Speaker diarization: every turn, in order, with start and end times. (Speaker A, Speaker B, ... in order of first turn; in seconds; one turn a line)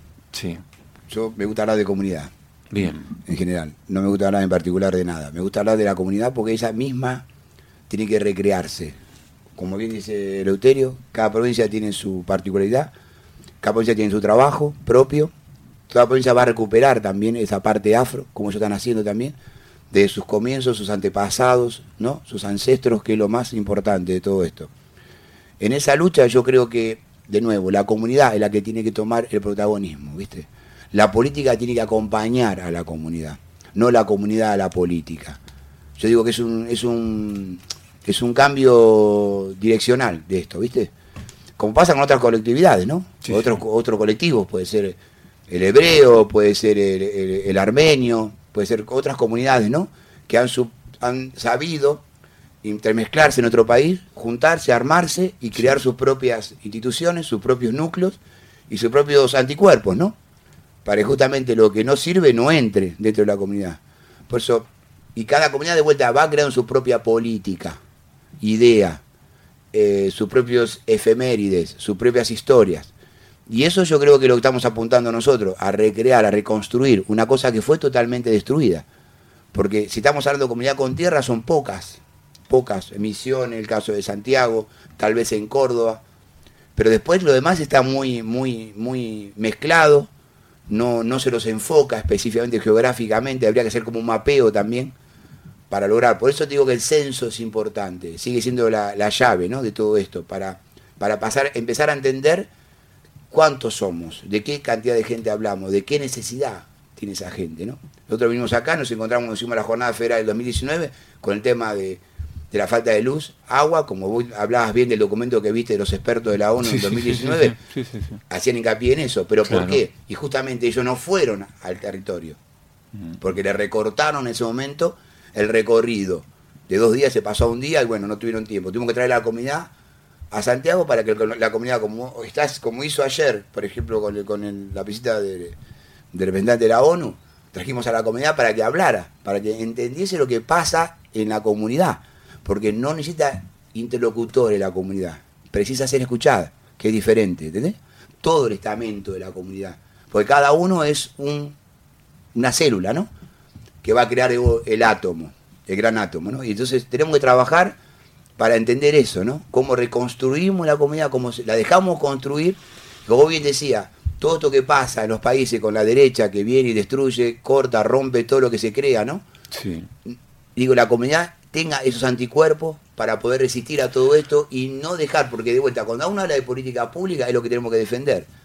Speaker A: 0.3-0.6
Speaker B: 1.1-2.3
Speaker A: 2.7-3.1
Speaker B: 3.2-7.2
Speaker B: 7.9-9.0
Speaker B: 9.6-12.9
Speaker B: 13.6-15.3
Speaker B: 15.9-19.4
Speaker B: 19.9-24.7
Speaker B: 25.6-35.4
Speaker B: 36.0-40.9
Speaker B: 41.6-45.0
Speaker A: 43.3-43.6
Speaker B: 45.5-52.0
Speaker B: 52.6-60.1
Speaker B: 60.9-67.8
Speaker B: 68.4-69.0
Speaker B: 69.7-72.9
Speaker B: 73.5-78.8
Speaker B: 79.5-86.0
Speaker B: 86.8-90.1
Speaker B: 90.7-94.9
Speaker B: 95.7-102.5
Speaker B: 103.3-117.6
Speaker A: 116.6-118.2
Speaker B: 118.3-122.4
Speaker A: 119.5-119.8
Speaker B: 123.2-129.7
Speaker B: 130.3-135.6
Speaker B: 136.1-151.6
Speaker B: 152.3-153.1
Speaker B: 153.8-157.8
Speaker B: 158.4-169.2
Speaker A: 169.5-169.9
Speaker B: 170.1-178.3